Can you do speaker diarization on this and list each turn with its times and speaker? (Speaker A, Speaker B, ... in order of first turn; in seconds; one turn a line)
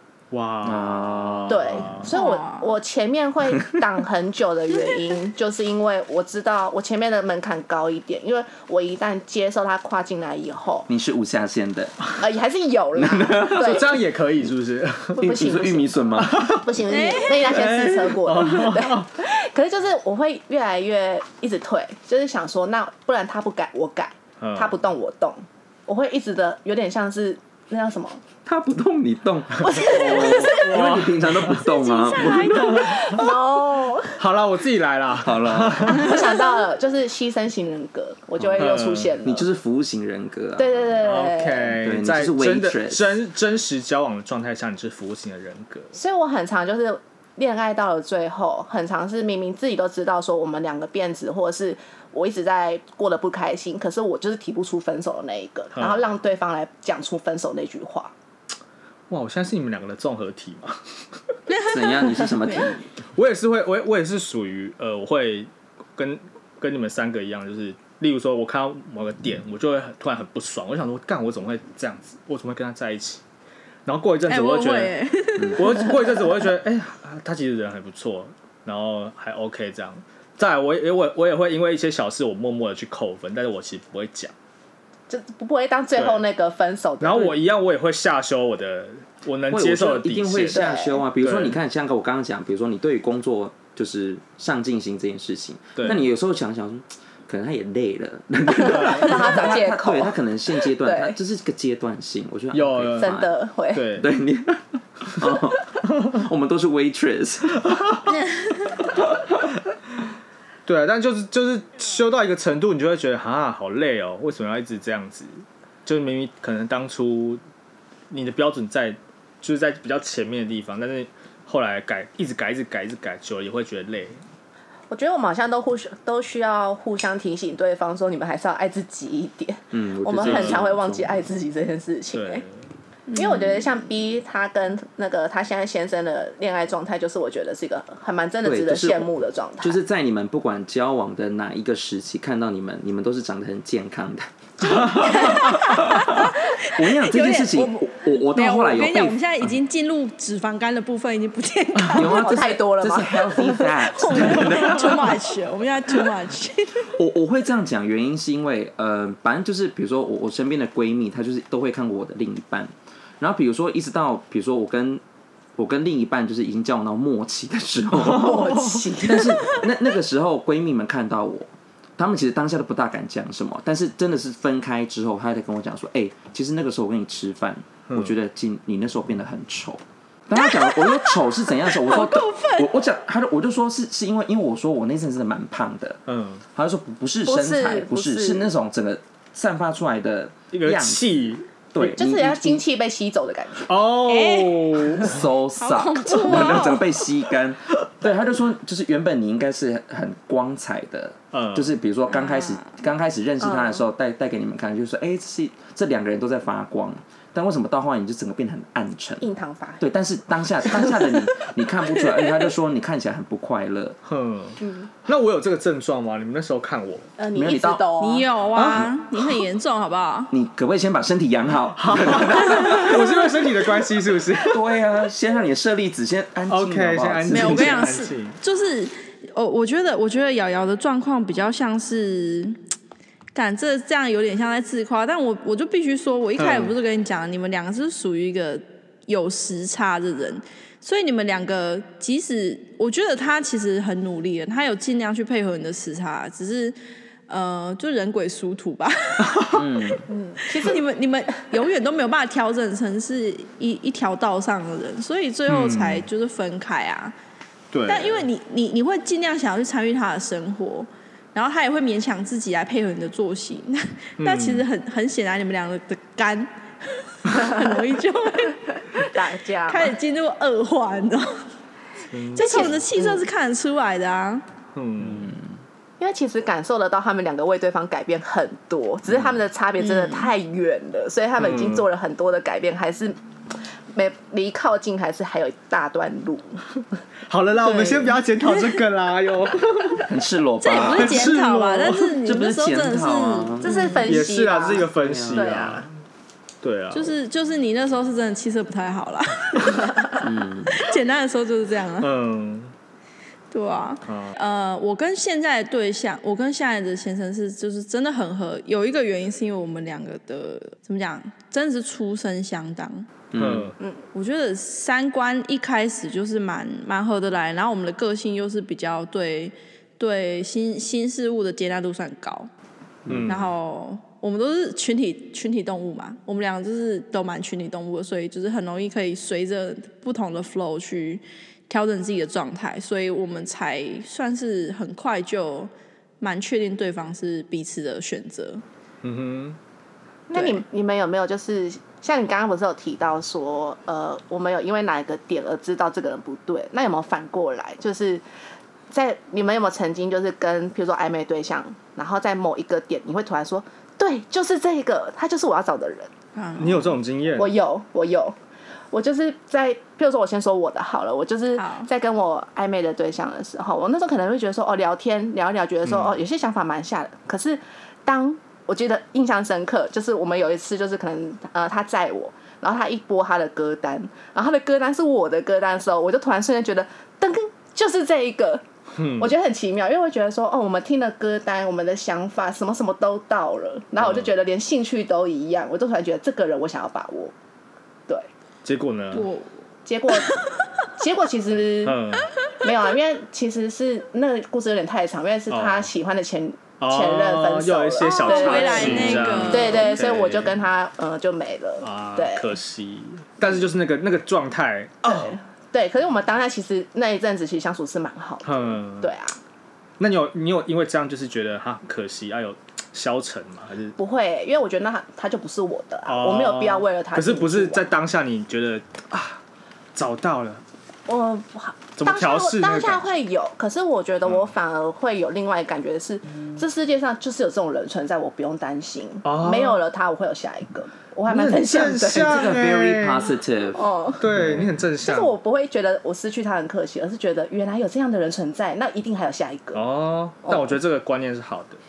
Speaker A: 0.3-2.1
Speaker B: 0.6-1.9
Speaker C: 1.5-10.9
Speaker D: 2.1-2.7
Speaker B: 10.9-12.0
Speaker C: 12.2-14.0
Speaker B: 13.0-13.9
Speaker A: 13.5-15.4
Speaker C: 15.2-16.0
Speaker B: 15.2-16.6
Speaker A: 16.2-16.8
Speaker C: 16.5-28.2
Speaker D: 16.9-17.5
Speaker A: 17.4-19.1
Speaker A: 24.4-24.8
Speaker B: 28.4-33.0
Speaker C: 29.6-30.8
Speaker A: 29.8-31.6
Speaker D: 31.6-33.3
Speaker C: 32.5-34.2
Speaker A: 32.8-33.2
Speaker A: 34.2-36.4
Speaker B: 35.2-36.1
Speaker C: 35.9-39.5
Speaker B: 38.4-41.0
Speaker A: 38.6-39.1
Speaker C: 40.6-41.8
Speaker A: 41.0-45.9
Speaker B: 41.8-43.2
Speaker C: 45.9-58.1
Speaker A: 55.8-56.1
Speaker A: 59.1-60.8
Speaker D: 61.5-62.7
Speaker B: 61.6-62.9
Speaker A: 63.2-73.2
Speaker A: 73.9-75.0
Speaker D: 74.3-76.2
Speaker A: 75.6-84.3
Speaker C: 85.1-87.4
Speaker A: 86.0-86.2
Speaker A: 87.0-91.6
Speaker B: 89.5-103.3
Speaker C: 90.5-91.0
Speaker A: 95.8-96.0
Speaker C: 98.5-101.2
Speaker A: 98.7-99.2
Speaker A: 102.5-103.2
Speaker C: 103.0-103.9
Speaker A: 103.7-104.1
Speaker B: 104.0-108.0
Speaker B: 108.8-109.1
Speaker A: 110.7-117.4
Speaker A: 118.1-124.2
Speaker C: 124.9-132.4
Speaker B: 129.7-131.1
Speaker A: 130.2-130.7
Speaker A: 132.1-132.6
Speaker D: 133.1-133.5
Speaker C: 133.1-139.8
Speaker B: 138.4-139.1
Speaker B: 139.6-149.3
Speaker D: 144.8-152.4
Speaker B: 151.8-155.2
Speaker C: 151.9-153.7
Speaker D: 153.5-156.9
Speaker B: 156.9-165.0
Speaker B: 165.6-186.0
Speaker A: 168.0-168.7
Speaker C: 168.0-169.6
Speaker A: 177.9-178.2
Speaker D: 180.3-182.7
Speaker A: 186.1-186.4
Speaker B: 186.5-191.2
Speaker C: 187.3-188.5
Speaker A: 190.5-191.9
Speaker B: 191.7-192.6
Speaker C: 191.8-193.8
Speaker A: 193.7-195.3
Speaker D: 194.0-194.9
Speaker B: 195.0-209.3
Speaker D: 195.6-196.8
Speaker A: 201.3-201.7
Speaker D: 202.1-202.8
Speaker C: 203.4-203.8
Speaker C: 209.2-209.8
Speaker B: 209.8-214.0
Speaker C: 210.7-211.0
Speaker A: 214.1-217.1
Speaker C: 214.6-214.9
Speaker C: 217.2-218.3
Speaker B: 217.3-217.8
Speaker D: 218.0-220.3
Speaker A: 218.6-218.9
Speaker B: 220.3-223.2
Speaker A: 221.8-224.7
Speaker B: 224.4-227.9
Speaker A: 226.5-228.4
Speaker D: 227.3-232.6
Speaker D: 233.3-246.8
Speaker A: 236.4-236.7
Speaker D: 247.3-249.5
Speaker A: 249.2-249.6
Speaker B: 249.5-250.0
Speaker C: 250.1-250.8
Speaker D: 250.4-257.1
Speaker A: 255.5-256.1
Speaker A: 257.7-258.3
Speaker D: 257.9-268.8
Speaker A: 264.2-264.7
Speaker C: 267.3-267.8
Speaker C: 268.9-269.9
Speaker D: 269.7-271.4
Speaker A: 272.1-272.8
Speaker D: 272.4-274.4
Speaker C: 272.4-273.2
Speaker A: 274.8-275.3
Speaker B: 275.0-275.5
Speaker C: 276.0-286.6
Speaker D: 279.8-280.3
Speaker A: 281.4-281.9
Speaker A: 287.3-290.1
Speaker D: 287.6-288.6
Speaker B: 290.1-291.3
Speaker D: 290.6-294.1
Speaker A: 290.8-292.2
Speaker B: 292.2-293.9
Speaker C: 293.6-295.9
Speaker A: 294.1-295.9
Speaker B: 294.9-295.8
Speaker A: 296.6-297.1
Speaker D: 296.9-299.9
Speaker B: 300.2-300.9
Speaker D: 300.7-302.1
Speaker A: 302.0-302.7
Speaker D: 303.5-313.1
Speaker A: 304.1-304.3
Speaker B: 313.3-313.7
Speaker A: 313.4-313.8
Speaker D: 314.1-322.5
Speaker B: 323.1-323.5
Speaker A: 323.1-323.5
Speaker D: 323.3-338.6
Speaker A: 339.0-339.6
Speaker C: 340.3-348.2
Speaker D: 340.3-340.6
Speaker C: 348.9-356.1
Speaker D: 356.4-356.9
Speaker A: 356.6-357.6
Speaker C: 357.4-358.4
Speaker C: 358.9-378.6
Speaker D: 361.6-361.9
Speaker A: 365.9-366.2
Speaker A: 379.0-379.3
Speaker C: 379.2-387.3
Speaker A: 384.0-384.3
Speaker A: 388.6-389.3
Speaker D: 389.1-389.5
Speaker C: 389.9-390.4
Speaker C: 391.0-392.0
Speaker A: 391.8-392.3
Speaker C: 392.6-402.5
Speaker A: 395.5-395.9
Speaker A: 396.8-400.6
Speaker D: 398.0-399.9
Speaker A: 401.8-405.4
Speaker C: 405.0-409.4
Speaker A: 408.4-409.1
Speaker A: 410.0-414.0
Speaker C: 414.0-417.9
Speaker A: 416.1-419.4
Speaker A: 419.9-420.6
Speaker C: 421.1-432.6
Speaker A: 422.0-423.0
Speaker A: 429.2-429.8
Speaker A: 431.3-433.4
Speaker B: 432.1-433.9
Speaker C: 433.7-434.3
Speaker A: 434.2-435.4
Speaker B: 434.4-434.7
Speaker C: 435.0-439.8
Speaker A: 439.7-441.8
Speaker C: 440.4-440.8